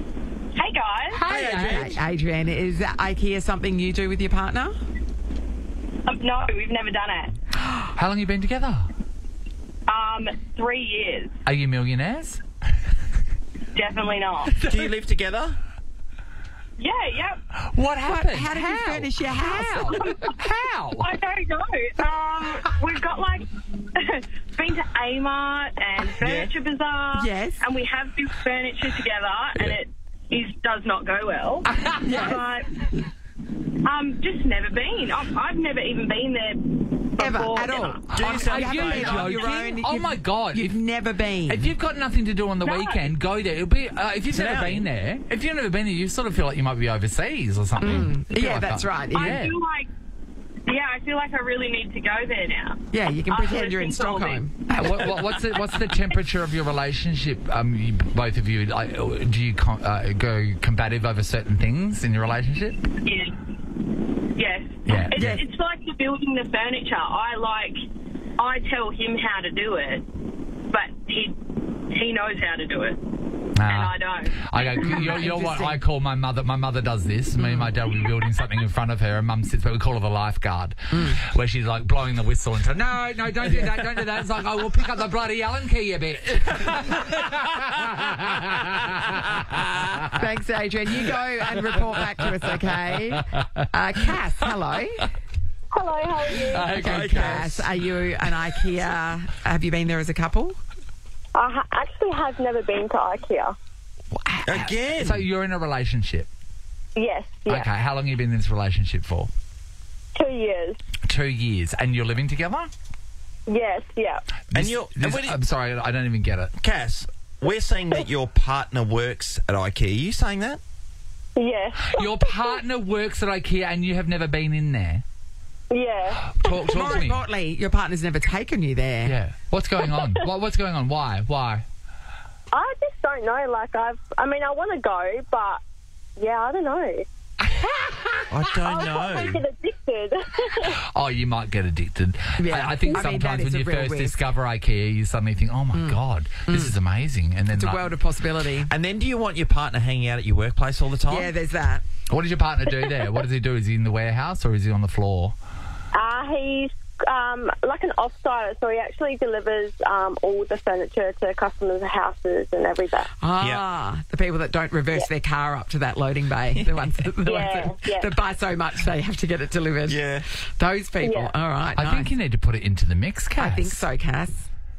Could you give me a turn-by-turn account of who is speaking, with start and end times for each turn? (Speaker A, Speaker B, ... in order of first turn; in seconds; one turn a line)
Speaker A: 0.5-1.2
Speaker B: 1.1-1.9
Speaker C: 1.2-2.0
Speaker D: 1.3-4.8
Speaker A: 6.1-7.3
Speaker B: 7.8-8.9
Speaker A: 9.9-11.4
Speaker B: 11.4-12.4
Speaker A: 13.7-14.6
Speaker C: 14.6-15.6
Speaker A: 16.8-17.4
Speaker B: 17.6-21.1
Speaker D: 18.1-20.2
Speaker A: 21.0-32.9
Speaker C: 26.2-26.5
Speaker D: 27.1-27.6
Speaker D: 32.0-32.4
Speaker A: 33.8-38.0
Speaker D: 37.2-41.7
Speaker C: 38.1-39.4
Speaker B: 38.1-40.8
Speaker B: 41.5-49.5
Speaker A: 42.6-43.1
Speaker D: 44.3-44.8
Speaker D: 47.8-49.4
Speaker A: 49.1-49.9
Speaker A: 50.7-54.4
Speaker D: 52.9-55.1
Speaker B: 54.7-62.9
Speaker A: 63.0-63.4
Speaker A: 64.3-67.8
Speaker B: 64.8-65.3
Speaker D: 65.2-65.4
Speaker A: 68.4-70.0
Speaker A: 70.7-73.0
Speaker B: 73.5-90.0
Speaker A: 73.6-75.1
Speaker D: 74.8-75.8
Speaker D: 77.4-77.7
Speaker D: 80.9-81.2
Speaker D: 90.1-95.1
Speaker B: 91.6-93.6
Speaker E: 95.7-96.7
Speaker B: 96.4-97.6
Speaker C: 96.7-97.6
Speaker D: 96.7-100.6
Speaker E: 101.3-103.5
Speaker B: 104.3-106.3
Speaker C: 104.5-105.2
Speaker E: 107.0-107.7
Speaker B: 107.5-109.3
Speaker E: 110.1-110.8
Speaker B: 111.1-112.7
Speaker E: 113.5-114.2
Speaker B: 114.5-116.5
Speaker C: 114.5-115.4
Speaker C: 116.6-120.6
Speaker E: 121.3-122.3
Speaker B: 121.8-125.0
Speaker E: 125.7-127.0
Speaker B: 126.2-127.2
Speaker D: 126.7-129.1
Speaker B: 129.0-131.6
Speaker E: 132.5-135.6
Speaker E: 136.2-137.0
Speaker C: 138.3-139.4
Speaker E: 138.6-140.8
Speaker B: 140.8-147.9
Speaker D: 142.4-144.2
Speaker D: 145.7-146.7
Speaker D: 147.5-148.7
Speaker C: 148.7-151.3
Speaker D: 151.1-151.8
Speaker B: 152.1-155.3
Speaker E: 155.9-163.1
Speaker D: 163.2-170.0
Speaker E: 167.2-168.1
Speaker C: 169.9-170.2
Speaker D: 170.6-172.1
Speaker E: 171.0-171.3
Speaker B: 171.8-173.8
Speaker D: 173.4-174.5